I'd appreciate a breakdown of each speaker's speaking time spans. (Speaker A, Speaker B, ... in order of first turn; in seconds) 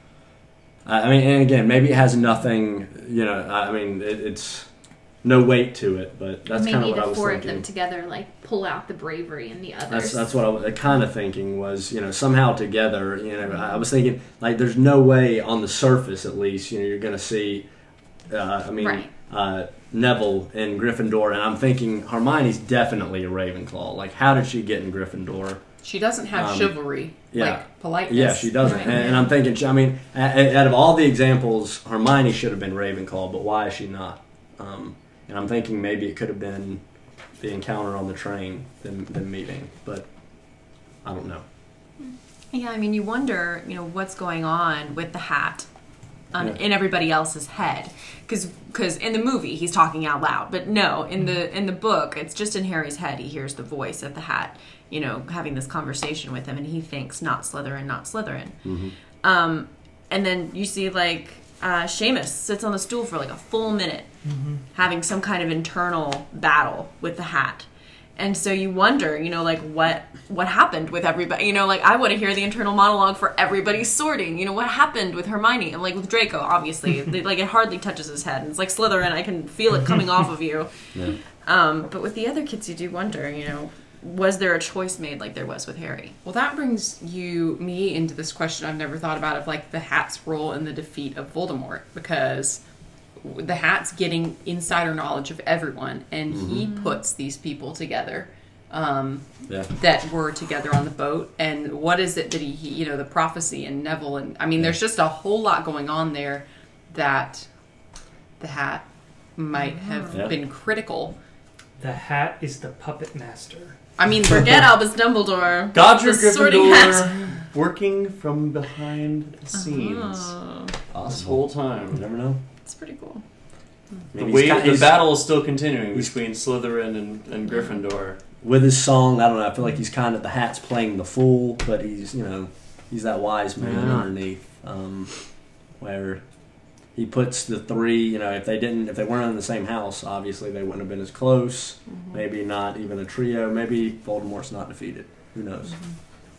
Speaker A: 0.8-7.7, 9.9-17.7, 18.3-25.6, 26.3-36.8, 37.4-41.4, 58.6-58.9, 80.9-81.2, 96.3-96.7, 120.9-122.4, 124.1-125.1, 128.4-145.8
Speaker B: 6.5-10.3, 18.8-19.1, 28.6-29.3
Speaker C: 25.8-29.2, 86.2-92.6, 93.2-107.5, 108.4-111.1, 114.0-114.7
Speaker D: 42.5-45.7, 46.3-64.2, 64.7-86.2, 96.7-97.0, 109.6-110.2, 114.3-117.2, 119.5-120.7, 122.6-123.2
Speaker E: 64.2-64.6, 111.8-113.8
Speaker F: 115.7-120.4, 121.0-122.0, 124.1-128.2, 133.6-134.1